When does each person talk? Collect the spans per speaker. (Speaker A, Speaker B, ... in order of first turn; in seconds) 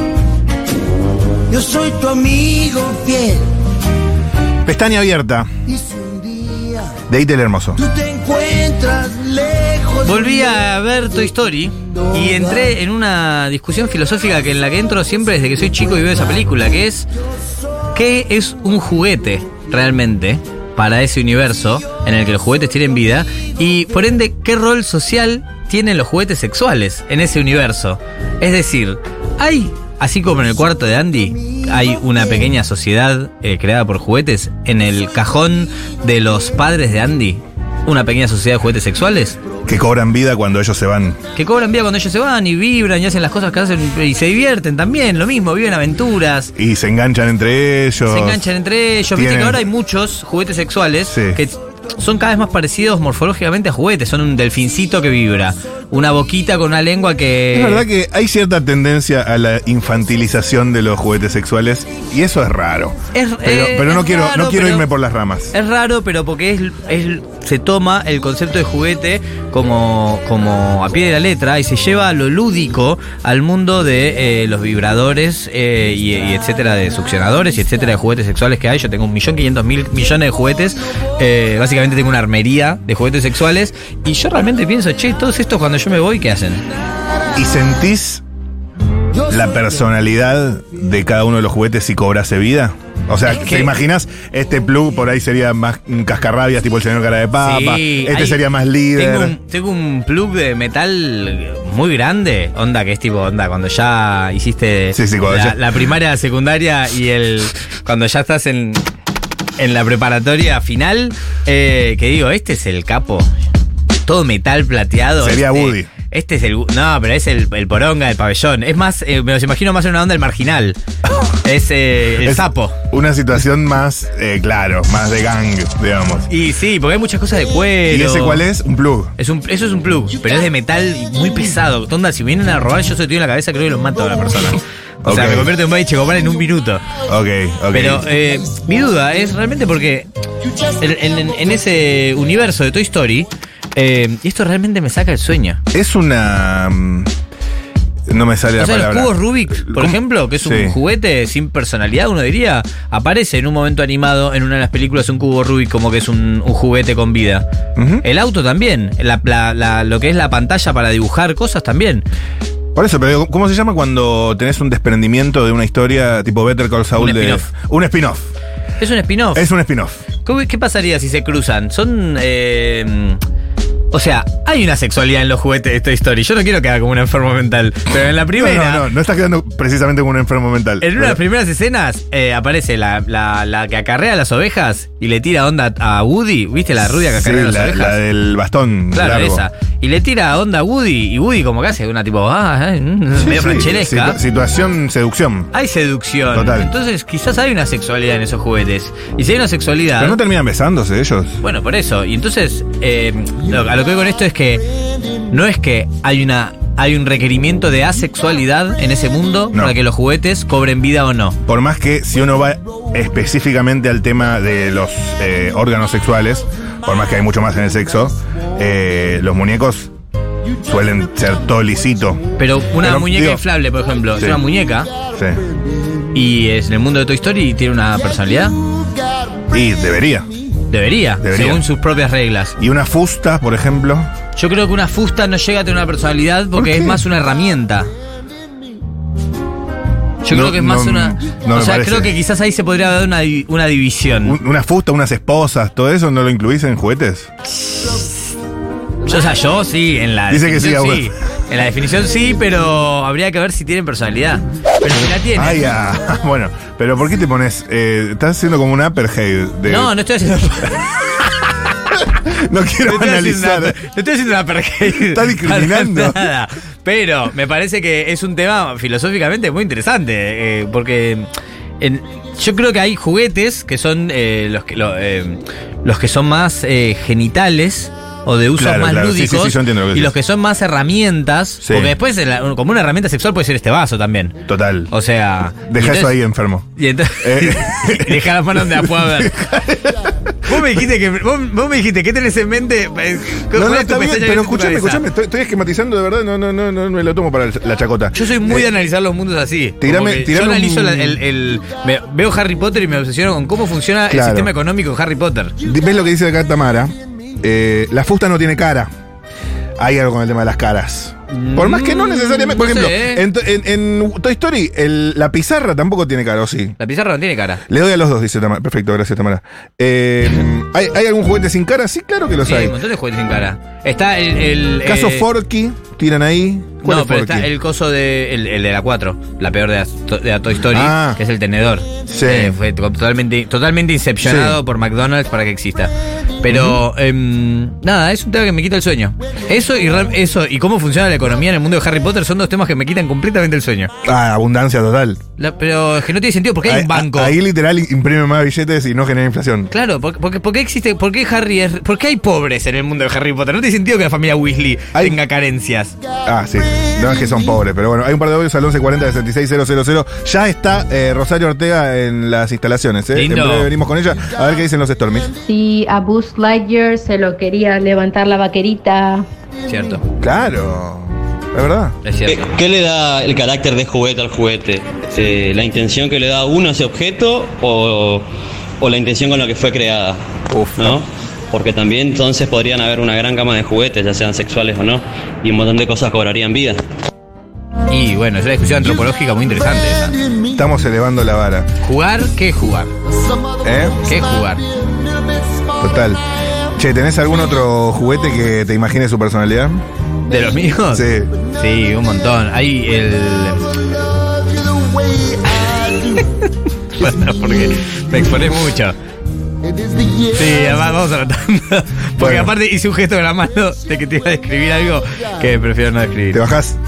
Speaker A: 1.5-3.5, 5.8-7.0, 7.8-10.6
Speaker B: 4.7-5.5, 7.1-7.8, 39.6-41.2, 46.6-48.5, 49.1-49.6, 51.1-51.4, 57.5-65.5, 87.3-88.2, 89.3-99.3, 104.9-105.6, 115.2-115.9, 122.2-126.3, 127.9-129.1, 135.0-135.5, 137.1-138.1, 145.7-147.1, 148.1-150.8, 157.8-158.1, 162.8-168.3, 169.3-170.0, 178.3-181.2, 187.0-189.4, 193.2-195.5, 196.3-196.7, 200.0-201.4, 211.5-219.9, 220.7-222.2, 222.8-223.4, 225.1-225.4, 229.5-230.3, 231.2-231.7, 232.6-234.1, 236.5-237.0, 240.3-242.1, 244.2-247.3, 250.3-251.1, 255.3-259.9, 261.9-263.8, 264.8-266.3, 278.6-280.1, 281.6-281.9, 284.5-284.9, 285.7-286.7, 287.2-290.7, 293.5-298.7, 299.8-301.2, 304.1-304.5, 305.6-308.9, 309.8-316.8, 317.7-322.8, 324.8-327.5, 330.7-331.2, 332.1-332.6, 334.2-334.6, 336.5-336.8, 344.0-345.2, 346.6-349.7, 356.2-365.3, 370.2-371.9, 380.5-380.9, 390.5-391.7, 393.6-394.0, 395.8-396.2, 396.8-399.9, 400.9-401.3, 412.2-412.5, 416.3-416.8
Speaker C: 10.0-17.1, 17.9-39.4, 41.3-46.5, 48.1-57.9, 63.1-64.9, 65.5-86.6, 93.2-93.8, 97.4-98.4, 99.0-108.8, 109.6-113.3, 114.0-120.8, 121.4-122.8, 126.3-128.5, 129.2-136.8, 137.7-140.1, 140.8-145.6, 148.6-157.4, 158.0-162.1, 166.9-167.5, 168.8-169.4, 170.2-173.2, 173.9-178.9, 180.8-188.0, 188.9-194.2, 195.5-200.2, 201.4-204.6, 205.3-211.4, 222.4-224.9, 226.1-228.5, 230.7-232.6, 234.4-237.9, 240.2-244.4, 247.5-248.3, 249.0-255.6, 259.7-261.2, 262.8-271.3, 271.8-284.4, 284.9-286.2, 286.8-289.5, 290.4-295.0, 298.1-305.6, 311.3-313.2, 316.8-317.6, 322.4-325.2, 326.8-343.9, 345.4-347.4, 349.7-355.9, 363.1-363.7, 369.7-370.0, 372.0-372.5, 387.9-390.2, 391.8-392.9, 394.0-394.7, 400.3-403.7, 405.5-406.4, 406.9-409.0, 410.2-416.4
Speaker D: 365.4-369.3
Speaker E: 372.3-378.3, 378.8-380.2, 380.8-386.8